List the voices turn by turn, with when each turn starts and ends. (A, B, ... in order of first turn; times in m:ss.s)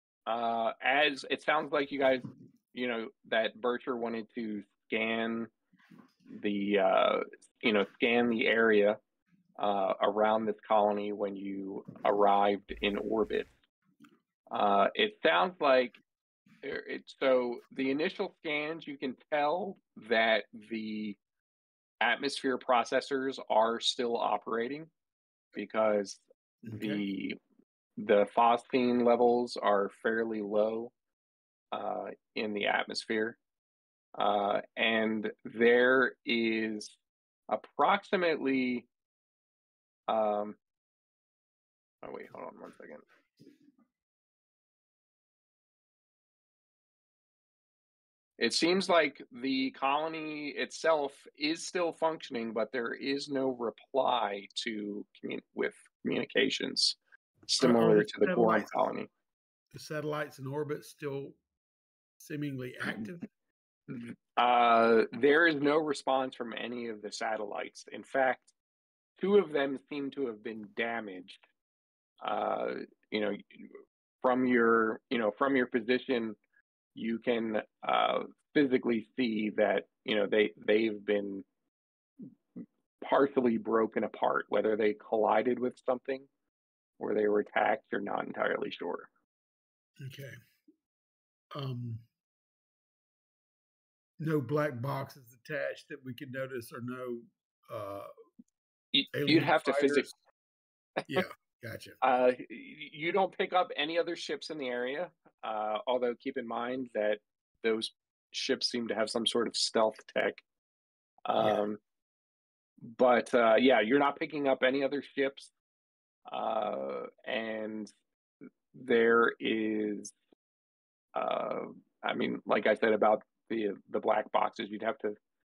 0:00.3-0:05.5 A
0:06.3-0:09.0 A
0:09.6-0:13.5 A
0:14.5-0:16.0 A
0:16.6-0:21.2 A
0:22.0-0:24.9 A
0:25.5-0:26.2 A
0:26.6-0:27.0 B
0:26.7-0:27.4 A
0:28.0-0:30.9 A
0:31.7-0:33.4 A
0:34.2-0:36.9 A
0:37.5-0:38.9 A
0:40.1-0:40.6 A
0:42.0-0:43.0 A
0:48.4-0:57.0 A
0:57.5-0:59.1 A
0:57.6-0:58.8 B
0:59.7-1:01.4 B
1:02.2-1:03.3 B
1:03.9-1:08.5 A
1:09.2-1:11.4 A
1:12.2-1:13.7 A
1:14.2-1:16.4 A
1:16.9-1:21.4 A
1:23.0-1:26.3 A
1:27.0-1:29.1 A
1:30.0-1:30.3 B
1:31.5-1:32.0 B
1:34.2-1:38.1 B
1:38.9-1:40.1 A
1:39.1-1:40.2 B
1:41.1-1:42.0 B
1:42.0-1:50.4 A
1:51.2-1:51.8 A
1:51.4-1:51.6 B
1:52.8-1:55.5 A
1:56.3-1:57.9 A
1:58.7-2:00.1 A
2:01.1-2:05.2 A